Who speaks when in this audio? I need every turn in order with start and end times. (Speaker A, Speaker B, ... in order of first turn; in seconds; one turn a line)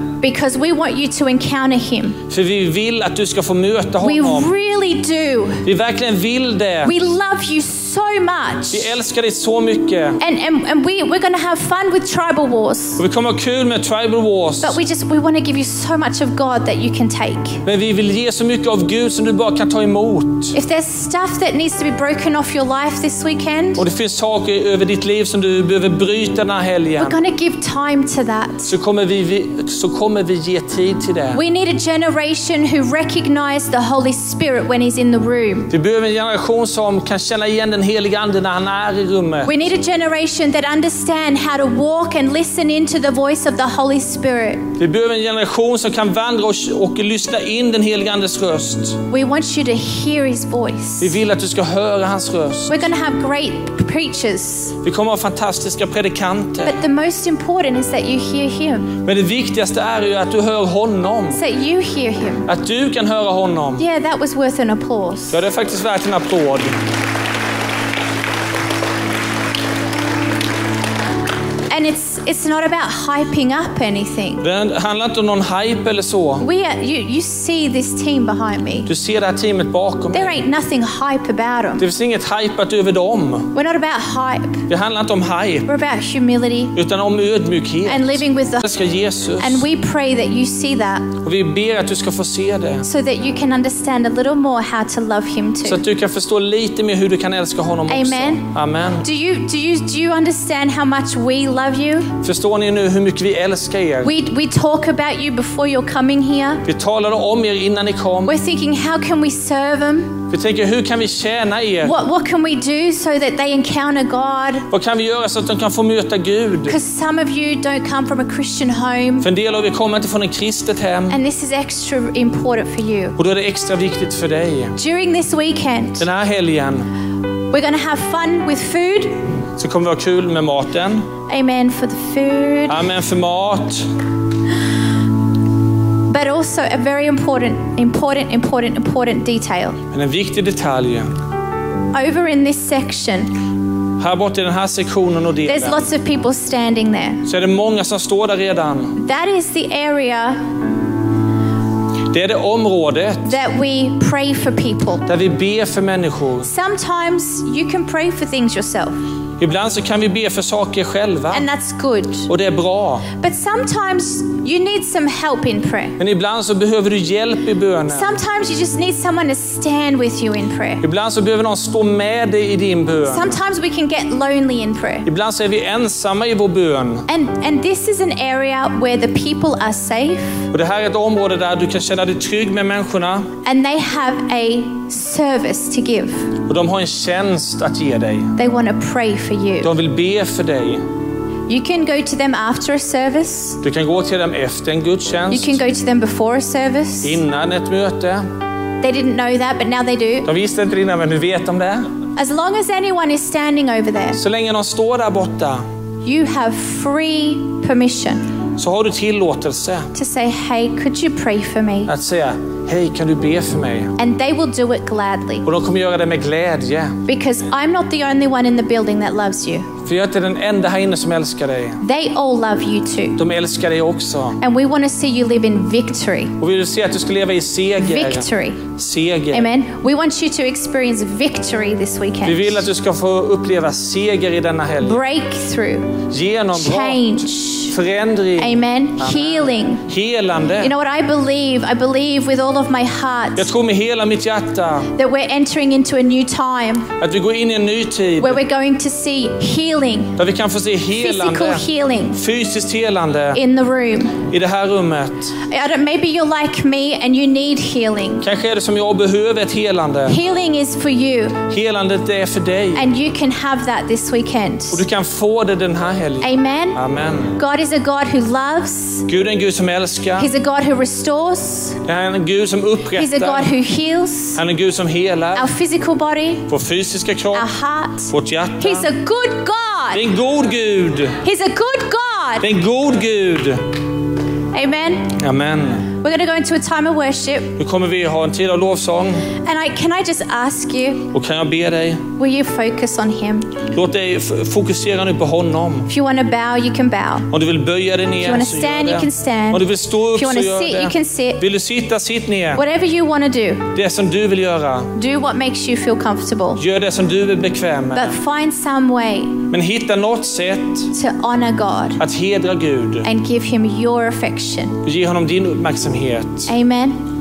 Speaker A: 0.2-2.2
Speaker B: 2.3-4.5
Speaker A: 4.0-5.7
Speaker B: 5.6-6.9
Speaker A: 6.8-8.9
Speaker B: 8.7-10.2
Speaker A: 10.2-13.0
Speaker B: 13.0-14.8
Speaker A: 14.6-17.6
Speaker B: 17.6-20.6
Speaker A: 20.5-23.8
Speaker B: 23.8-27.2
Speaker A: 27.0-28.7
Speaker B: 28.6-31.4
Speaker A: 31.3-35.7
Speaker B: 35.7-39.6
Speaker A: 39.4-44.7
Speaker B: 44.8-49.0
Speaker A: 49.1-51.1
Speaker B: 51.0-52.8
Speaker A: 52.7-54.8
Speaker B: 54.8-56.8
Speaker A: 56.6-59.0
Speaker B: 59.0-61.4
Speaker A: 61.3-62.5
Speaker B: 62.5-63.8
Speaker A: 63.8-65.4
Speaker B: 65.3-66.7
Speaker A: 71.7-74.4
Speaker B: 74.4-76.5
Speaker A: 76.4-78.9
Speaker B: 78.9-80.4
Speaker A: 80.1-81.8
Speaker B: 81.8-83.5
Speaker A: 83.5-84.7
Speaker B: 84.7-85.7
Speaker A: 85.7-86.7
Speaker B: 86.7-89.6
Speaker A: 87.8-88.7
Speaker A: 89.4-91.1
Speaker B: 91.2-92.8
Speaker A: 92.8-95.8
Speaker B: 95.6-99.0
Speaker A: 97.9-98.5
Speaker A: 99.0-102.1
Speaker B: 102.2-104.1
Speaker A: 104.0-106.6
Speaker B: 106.6-108.3
Speaker A: 108.2-110.2
Speaker B: 110.3-112.0
Speaker A: 111.8-114.7
Speaker B: 114.7-116.8
Speaker A: 116.7-119.3
Speaker B: 119.2-121.2
Speaker A: 121.1-123.2
Speaker B: 123.2-124.8
Speaker A: 124.8-126.0
Speaker B: 126.0-126.9
Speaker A: 127.5-129.2
Speaker B: 129.6-131.1
Speaker A: 131.3-132.9
Speaker B: 132.7-133.8
Speaker A: 136.1-139.8
Speaker B: 139.9-141.1
Speaker A: 141.9-143.3
Speaker B: 144.0-145.9
Speaker A: 145.4-147.2
Speaker B: 147.3-149.0
Speaker A: 148.9-150.4
Speaker B: 152.1-153.3
Speaker A: 153.2-155.1
Speaker B: 155.1-156.5
Speaker A: 156.4-159.0
Speaker B: 159.4-161.4
Speaker A: 161.3-162.3
Speaker B: 162.3-163.1
Speaker A: 163.1-166.0
Speaker B: 166.0-168.2
Speaker A: 167.9-170.8
Speaker B: 170.8-173.4
Speaker A: 173.1-175.1
Speaker B: 175.0-177.1
Speaker A: 177.1-180.4
Speaker B: 180.5-183.3
Speaker A: 183.4-186.3
Speaker B: 186.5-188.3
Speaker A: 188.4-189.7
Speaker B: 189.6-190.8
Speaker A: 191.5-193.6
Speaker B: 193.6-195.6
Speaker A: 195.3-197.2
Speaker B: 197.0-198.3
Speaker A: 198.8-200.3
Speaker B: 200.2-201.8
Speaker A: 202.2-204.2
Speaker B: 204.1-205.6
Speaker A: 206.0-208.2
Speaker B: 208.6-209.9
Speaker A: 209.9-211.9
Speaker B: 211.8-213.9
Speaker A: 214.0-215.4
Speaker B: 215.4-217.0
Speaker A: 217.1-219.7
Speaker B: 219.8-221.8
Speaker A: 221.8-223.2
Speaker B: 223.2-224.4
Speaker A: 224.4-226.4
Speaker B: 226.4-229.5
Speaker A: 227.8-228.7
Speaker A: 229.3-232.6
Speaker B: 232.2-235.0
Speaker A: 234.8-236.0
Speaker B: 236.1-240.7
Speaker A: 236.5-237.7
Speaker A: 238.4-239.8
Speaker A: 240.6-243.5
Speaker B: 243.3-244.9
Speaker A: 244.9-246.9
Speaker B: 247.0-248.4
Speaker A: 248.2-250.2
Speaker B: 250.2-253.4
Speaker A: 250.9-252.2
Speaker A: 253.3-254.2
Speaker B: 254.2-255.3
Speaker A: 255.4-258.2
Speaker B: 258.2-260.2
Speaker A: 260.1-261.4
Speaker B: 261.5-262.9
Speaker A: 262.7-264.8
Speaker B: 264.7-267.4
Speaker A: 266.2-266.8
Speaker A: 267.4-269.1
Speaker B: 269.1-270.3
Speaker A: 270.2-271.8
Speaker B: 271.8-273.5
Speaker A: 272.9-274.4
Speaker B: 274.4-275.5
Speaker A: 275.3-276.5
Speaker B: 276.5-277.5
Speaker A: 277.3-280.1
Speaker B: 278.1-278.9
Speaker B: 279.9-281.2
Speaker A: 281.2-282.5
Speaker B: 282.4-283.7
Speaker A: 284.5-285.2
Speaker B: 285.1-285.9
Speaker A: 285.9-287.6
Speaker B: 287.6-289.3
Speaker A: 289.4-291.1
Speaker B: 291.1-292.0
Speaker A: 292.2-293.6
Speaker B: 293.7-295.9
Speaker A: 295.9-297.3
Speaker B: 297.3-302.6
Speaker A: 298.2-301.4
Speaker A: 302.5-303.7
Speaker B: 303.7-304.9
Speaker A: 304.9-306.6
Speaker B: 306.6-308.2
Speaker A: 307.9-309.4
Speaker B: 309.5-310.9
Speaker A: 310.9-312.0
Speaker B: 312.0-313.1
Speaker A: 313.0-314.8
Speaker B: 314.8-316.5
Speaker A: 316.5-317.0